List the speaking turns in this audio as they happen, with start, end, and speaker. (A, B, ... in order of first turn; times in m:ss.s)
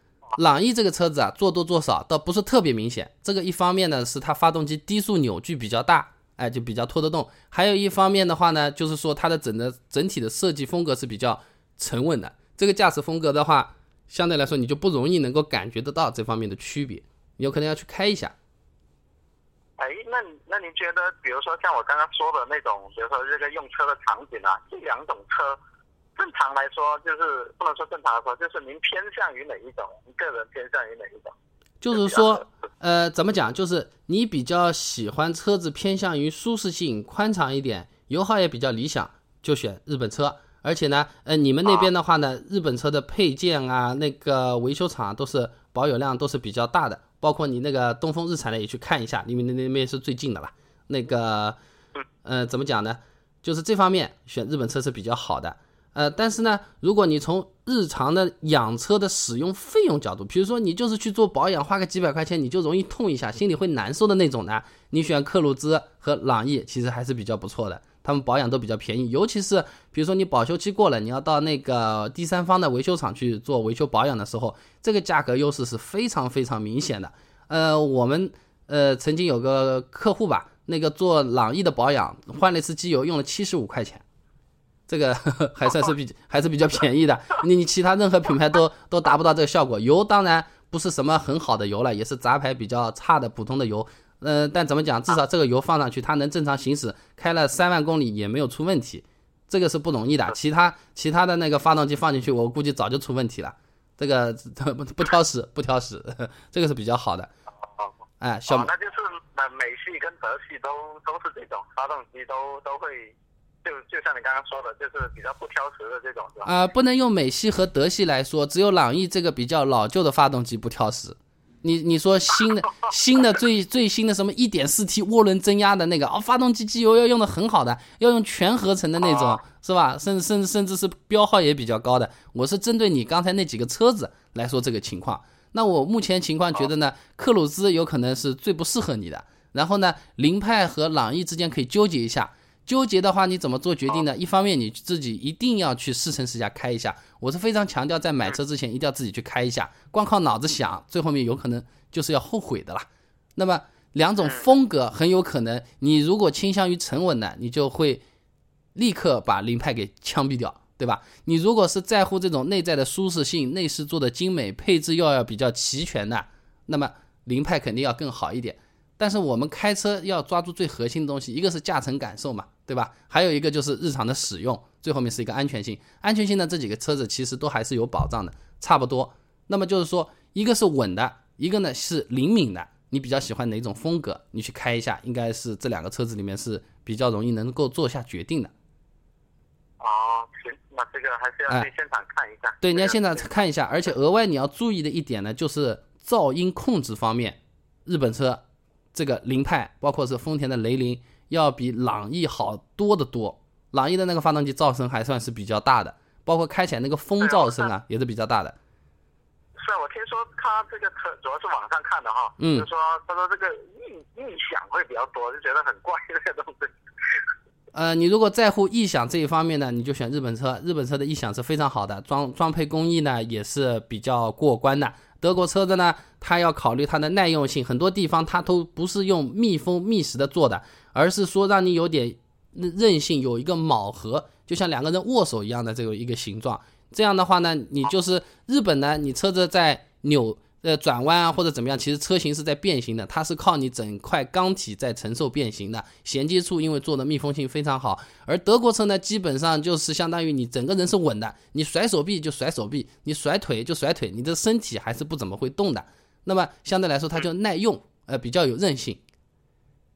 0:00.4-0:18.3 A
0:19.8-0:25.6 B
0:26.2-0:31.3 B
0:31.8-0:51.6 A
0:31.9-0:32.4 B
0:52.2-1:24.0 A
1:24.9-1:47.3 A
1:48.2-1:48.7 A
1:48.5-1:56.6 B
1:56.4-2:38.0 A
2:38.7-3:08.5 A
3:09.8-3:13.3 B
3:12.6-3:18.4 A
3:18.9-3:28.5 A
3:27.2-3:27.7 B
3:29.6-3:36.7 B
3:32.4-3:32.7 A
3:37.7-4:19.0 A